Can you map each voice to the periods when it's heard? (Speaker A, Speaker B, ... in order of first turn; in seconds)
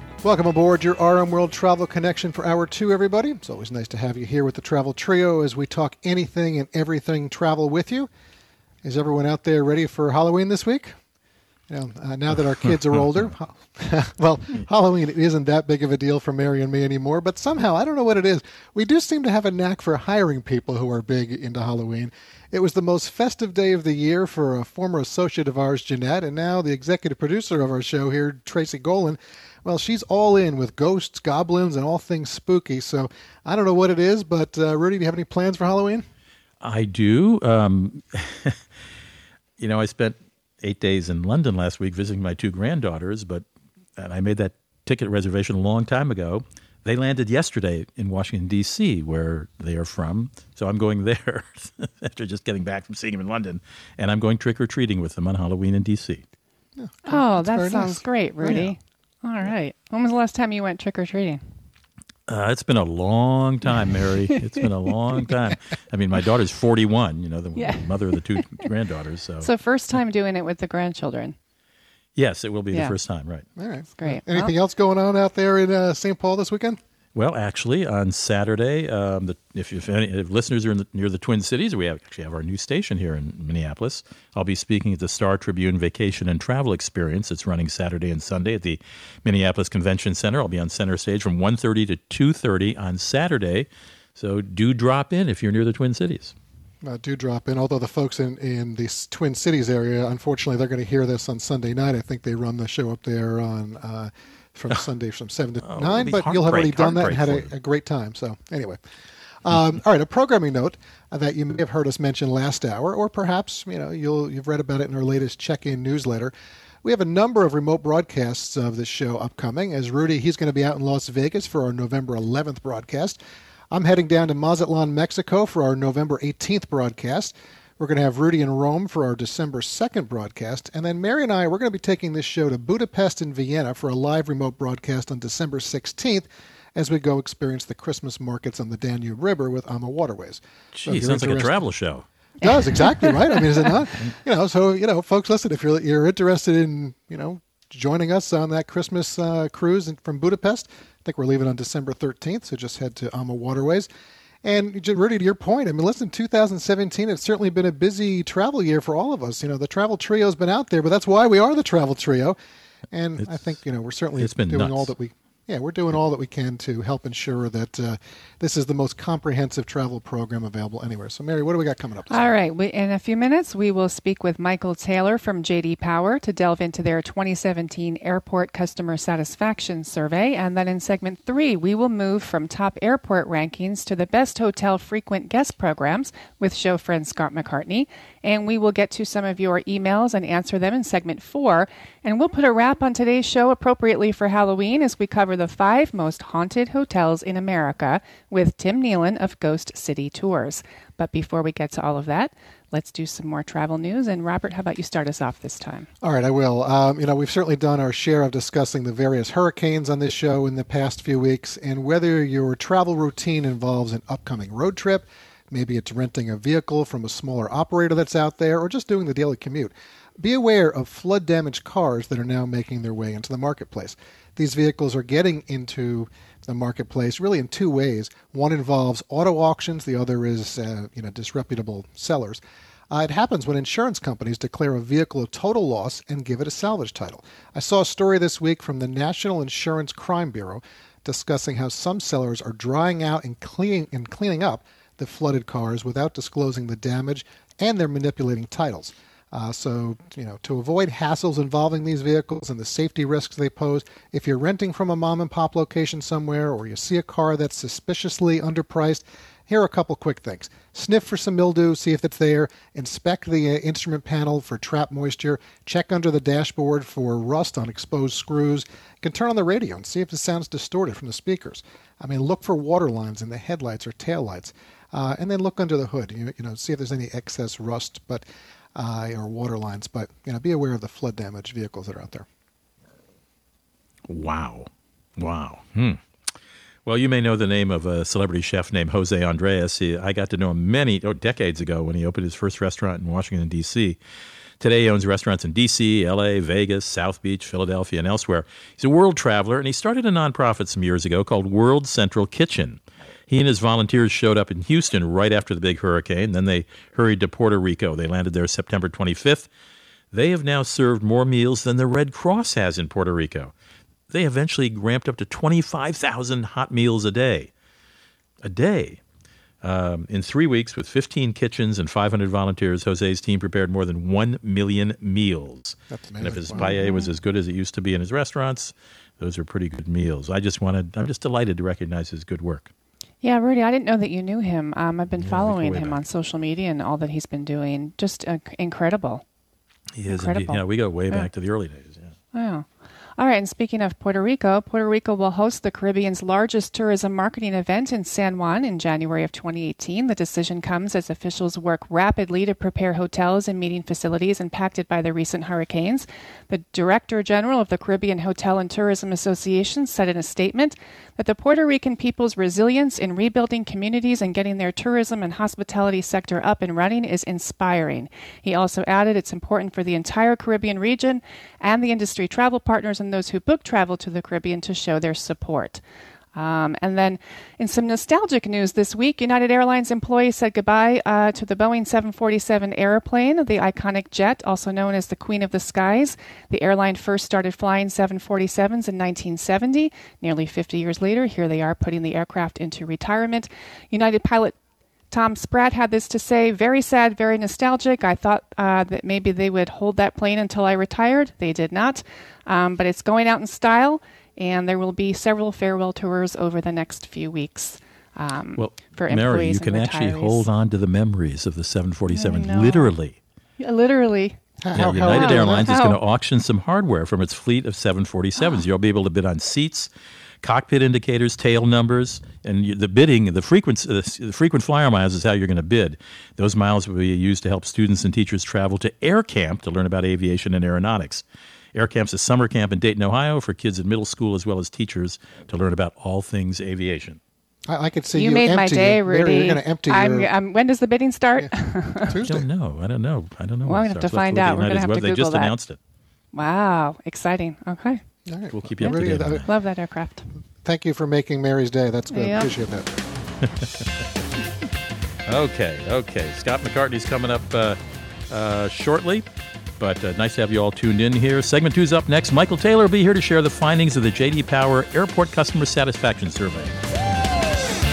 Speaker A: 0.2-8.1, 8.8-10.9, 11.7-36.1, 56.8-58.7, 73.6-76.8, 96.8-108.8, 109.5-116.3, 116.8-123.2, 123.7-141.7, 142.4-153.9, 154.4-162.4, 162.9-172.3, 206.0-282.3, 325.9-326.7, 414.6-415.7, 437.7-440.3, 442.1-442.4, 448.3-449.4, 450.6-452.9
Speaker B: 36.6-38.6, 39.6-43.5, 44.0-56.2, 62.3-69.5, 72.2-73.5, 77.2-96.3, 105.7-107.5, 140.7-142.0, 163.2-163.5, 164.2-164.9, 284.1-286.0, 286.9-294.0, 294.6-309.5, 310.1-313.5, 314.1-317.5, 318.4-319.0, 319.6-332.7, 335.2-336.0, 340.0-342.1, 408.6-413.2, 414.8-419.9, 420.4-431.2, 431.8-437.2, 442.2-445.8, 448.5-449.5, 455.3-457.8, 458.3-459.2, 459.8-466.8
Speaker C: 57.1-61.4, 67.6-68.7, 69.4-71.4, 74.0-74.5, 142.4-143.7, 172.1-205.9, 326.5-327.1, 333.2-339.2, 340.1-341.3, 342.3-342.7, 343.2-375.8, 376.4-394.6, 395.1-410.5, 412.1-412.9, 413.6-414.4, 415.1-416.0, 438.1-442.1, 443.7-445.5, 446.3-448.0, 448.8-450.3, 452.1-452.5